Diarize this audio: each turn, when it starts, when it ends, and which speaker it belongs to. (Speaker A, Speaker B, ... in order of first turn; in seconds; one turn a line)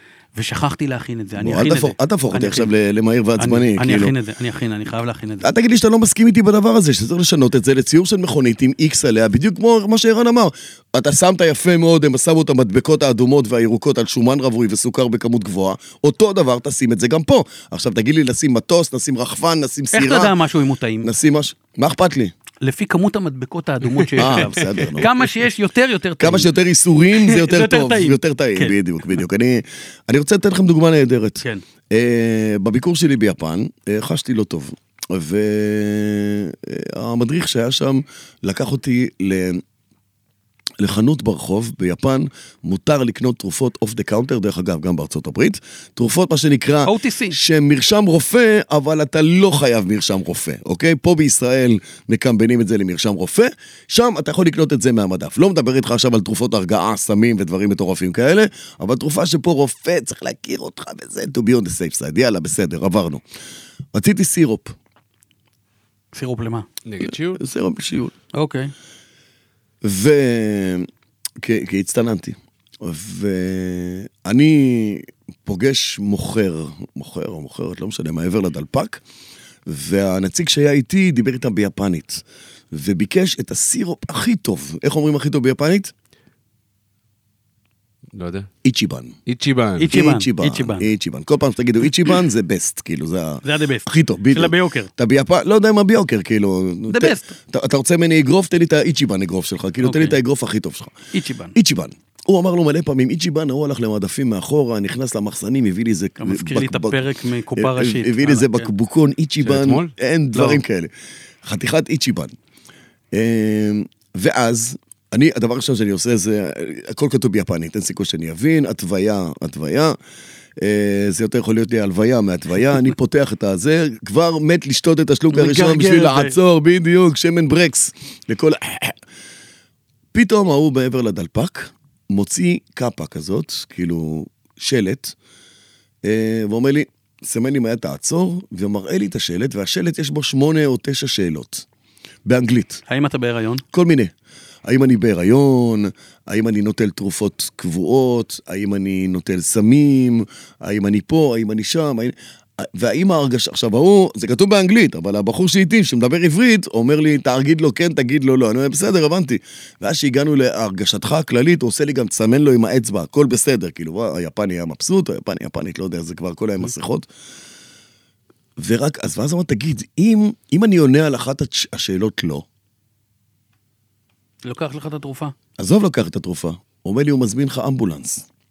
Speaker A: 0.3-2.7
Speaker B: 1.4-4.1
Speaker A: 3.4-5.5
Speaker B: 5.4-20.3
Speaker A: 19.9-21.1
Speaker B: 21.0-22.3
Speaker A: 22.6-26.5
Speaker C: 24.0-24.9
Speaker B: 24.2-25.1
Speaker B: 26.2-39.6
Speaker A: 27.1-28.8
Speaker B: 40.8-63.2
Speaker A: 46.9-47.4
Speaker B: 63.9-64.8
Speaker A: 66.1-66.7
Speaker C: 66.8-67.4
Speaker B: 67.1-68.1
Speaker A: 68.3-68.7
Speaker B: 69.8-70.9
Speaker B: 71.4-79.0
Speaker B: 79.7-85.9
Speaker C: 88.1-88.5
Speaker B: 88.6-89.2
Speaker C: 89.3-89.9
Speaker A: 89.8-90.9
Speaker B: 89.9-101.0
Speaker A: 93.4-94.9
Speaker A: 96.9-97.3
Speaker A: 99.8-100.2
Speaker A: 101.1-101.5
Speaker B: 101.5-107.0
Speaker A: 106.2-108.7
Speaker B: 107.6-110.9
Speaker C: 109.4-109.9
Speaker A: 110.3-110.6
Speaker B: 111.4-112.3
Speaker B: 113.1-120.0
Speaker B: 120.6-129.0
Speaker A: 125.3-126.4
Speaker B: 130.1-135.2
Speaker B: 136.0-141.7
Speaker B: 142.2-142.8
Speaker A: 142.9-143.6
Speaker B: 143.7-144.1
Speaker B: 144.7-167.1
Speaker B: 168.6-172.4
Speaker A: 174.4-175.3
Speaker B: 175.6-178.3